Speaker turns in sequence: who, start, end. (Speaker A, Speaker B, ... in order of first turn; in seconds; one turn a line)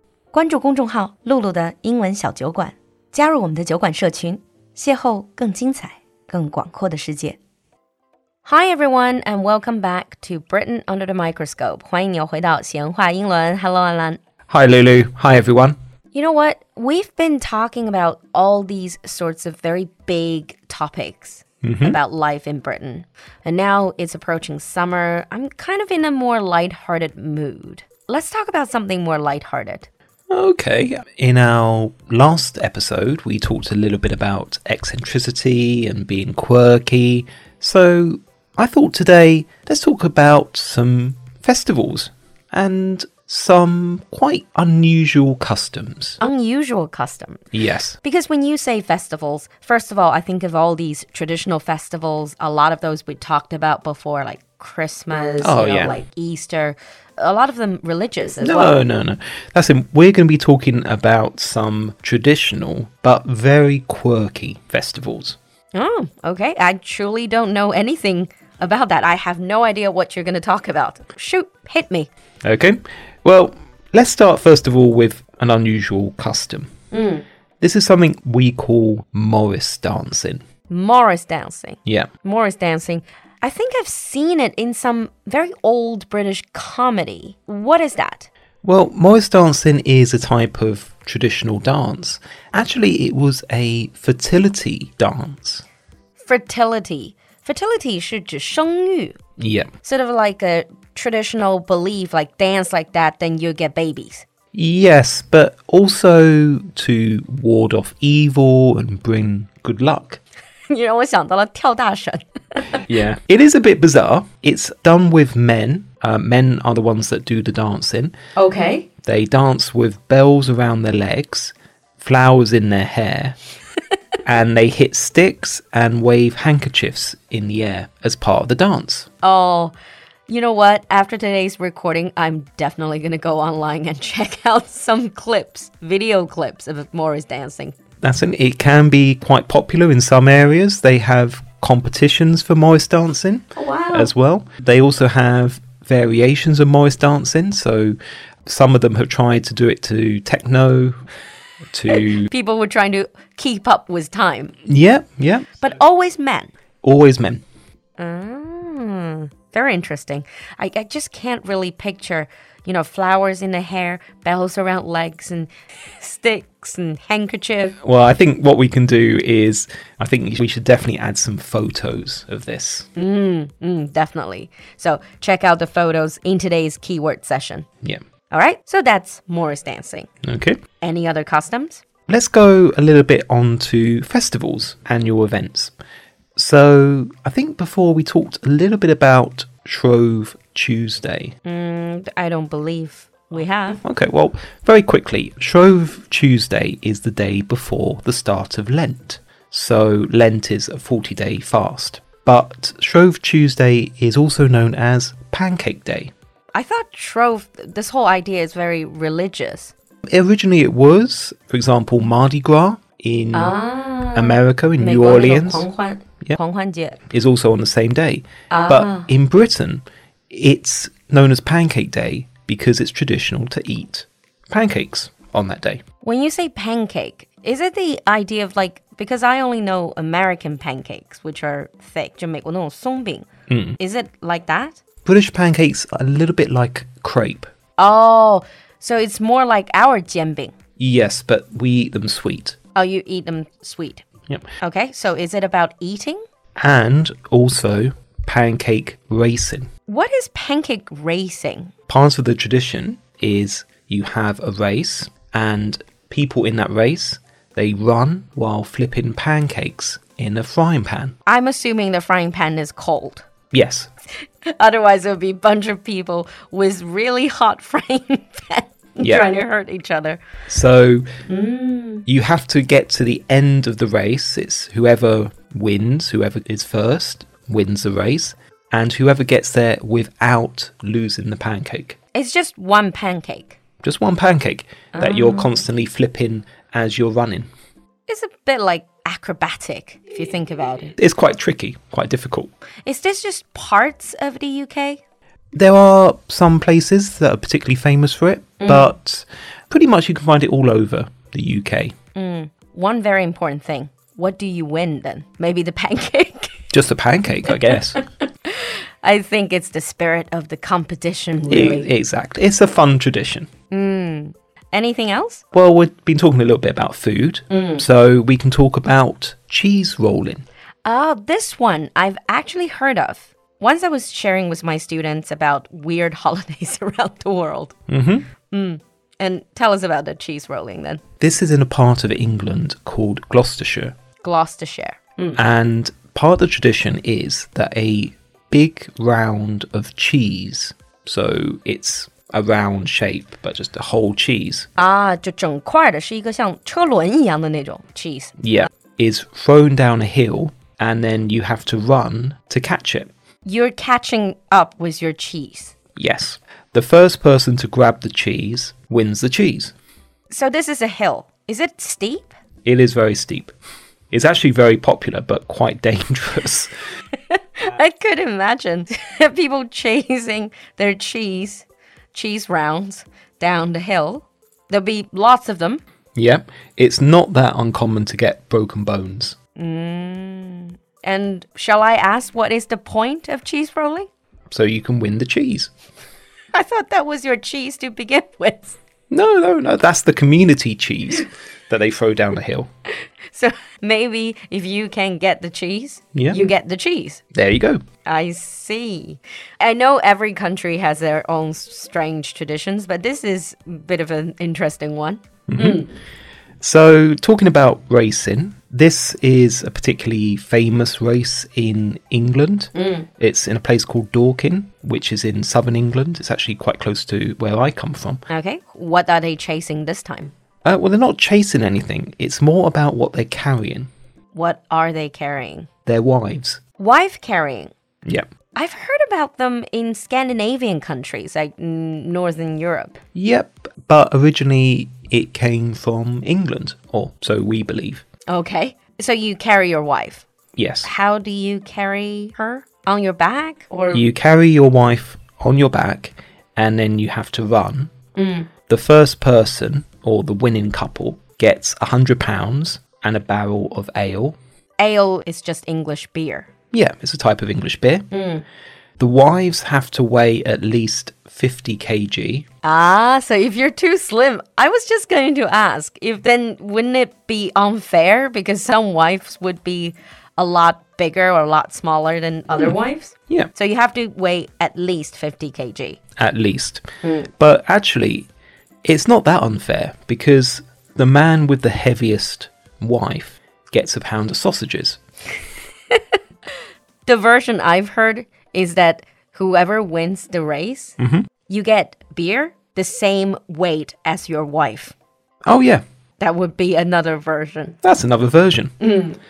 Speaker A: 0.3-7.4
Speaker A: 8.4-14.2
Speaker B: 14.5-15.8
Speaker A: 16.1-29.9
Speaker B: 21.6-22.0
Speaker B: 30.3-46.2
Speaker A: 46.2-47.4
Speaker B: 47.5-48.0
Speaker A: 48.0-58.8
Speaker B: 55.4-56.0
Speaker B: 58.4-65.4
Speaker A: 65.7-72.1
Speaker B: 72.4-76.7
Speaker A: 76.9-77.2
Speaker B: 77.6-80.4
Speaker A: 80.7-88.3
Speaker B: 88.6-95.6
Speaker A: 96.2-99.2
Speaker B: 99.4-99.7
Speaker A: 99.8-104.3
Speaker B: 104.5-110.2
Speaker A: 110.7-112.8
Speaker B: 112.9-118.1
Speaker A: 118.4-118.9
Speaker B: 119.0-123.4
Speaker B: 124.2-129.1
Speaker A: 129.2-129.8
Speaker A: 130.3-137.8
Speaker B: 138.0-151.0
Speaker A: 143.6-144.1
Speaker B: 151.7-152.3
Speaker A: 151.9-154.6
Speaker B: 154.7-155.5
Speaker A: 155.6-156.5
Speaker B: 156.8-157.4
Speaker A: 158.0-167.8
Speaker B: 167.8-172.9
Speaker A: 173.0-177.7
Speaker A: 178.3-180.1
Speaker B: 180.2-180.6
Speaker A: 180.8-181.8
Speaker B: 182.1-185.7
Speaker B: 186.4-191.3
Speaker A: 191.4-193.8
Speaker B: 193.8-206.1
Speaker A: 206.6-209.7
Speaker B: 210.1-213.6
Speaker A: 213.3-217.0
Speaker B: 214.2-215.7
Speaker B: 217.1-225.8
Speaker A: 218.5-219.1
Speaker A: 226.0-234.8
Speaker B: 233.5-233.8
Speaker B: 235.1-237.5
Speaker A: 237.8-240.5
Speaker B: 240.8-242.6
Speaker A: 242.8-244.1
Speaker A: 244.6-246.2
Speaker B: 246.6-249.7
Speaker A: 249.9-251.7
Speaker B: 251.9-261.1
Speaker A: 261.2-263.2
Speaker B: 263.5-263.9
Speaker A: 264.4-270.2
Speaker B: 270.5-271.1
Speaker A: 271.3-272.1
Speaker B: 272.1-282.0
Speaker A: 282.1-283.6
Speaker B: 283.8-287.5
Speaker A: 284.9-285.6
Speaker A: 288.1-290.9
Speaker B: 291.0-292.5
Speaker A: 292.9-295.0
Speaker B: 295.5-301.9
Speaker A: 298.6-298.9
Speaker A: 302.1-306.6
Speaker B: 306.7-308.0
Speaker A: 307.5-311.9
Speaker B: 311.5-313.5
Speaker A: 313.7-315.4
Speaker B: 315.5-320.4
Speaker A: 317.5-317.8
Speaker A: 320.8-327.8
Speaker B: 327.9-328.3
Speaker A: 328.5-331.0
Speaker B: 331.2-333.9
Speaker A: 334.2-335.4
Speaker B: 335.3-344.7
Speaker A: 344.8-348.4
Speaker B: 348.4-353.1
Speaker A: 353.4-355.7
Speaker B: 355.9-359.7
Speaker A: 360.3-362.3
Speaker B: 362.6-363.5
Speaker B: 364.1-366.7
Speaker A: 367.3-375.8
Speaker B: 376.1-379.4
Speaker A: 379.6-384.1
Speaker B: 384.5-385.7
Speaker A: 386.5-388.8
Speaker B: 389.1-392.7
Speaker A: 393.3-397.2
Speaker B: 396.1-396.4
Speaker B: 397.3-397.8
Speaker A: 398.0-405.9
Speaker B: 405.5-405.9
Speaker B: 406.6-418.2
Speaker A: 412.8-413.1
Speaker A: 418.3-420.3
Speaker B: 420.6-423.9
Speaker A: 424.3-425.7
Speaker B: 425.9-426.6
Speaker A: 426.8-427.7
Speaker A: 428.5-433.0
Speaker B: 433.1-438.0
Speaker A: 438.3-440.2
Speaker B: 440.6-440.9
Speaker A: 440.8-444.0
Speaker B: 443.9-447.9
Speaker A: 448.1-448.5
Speaker B: 448.7-454.4
Speaker A: 454.8-456.5
Speaker B: 456.7-458.1
Speaker A: 458.1-458.4
Speaker B: 459.0-462.4
Speaker A: 462.6-476.0
Speaker B: 476.2-478.3
Speaker A: 477.0-477.3
Speaker B: 478.8-485.0
Speaker A: 487.1-494.9
Speaker B: 491.0-491.3
Speaker B: 495.4-495.8
Speaker A: 496.2-497.8
Speaker B: 497.8-498.7
Speaker A: 498.8-499.2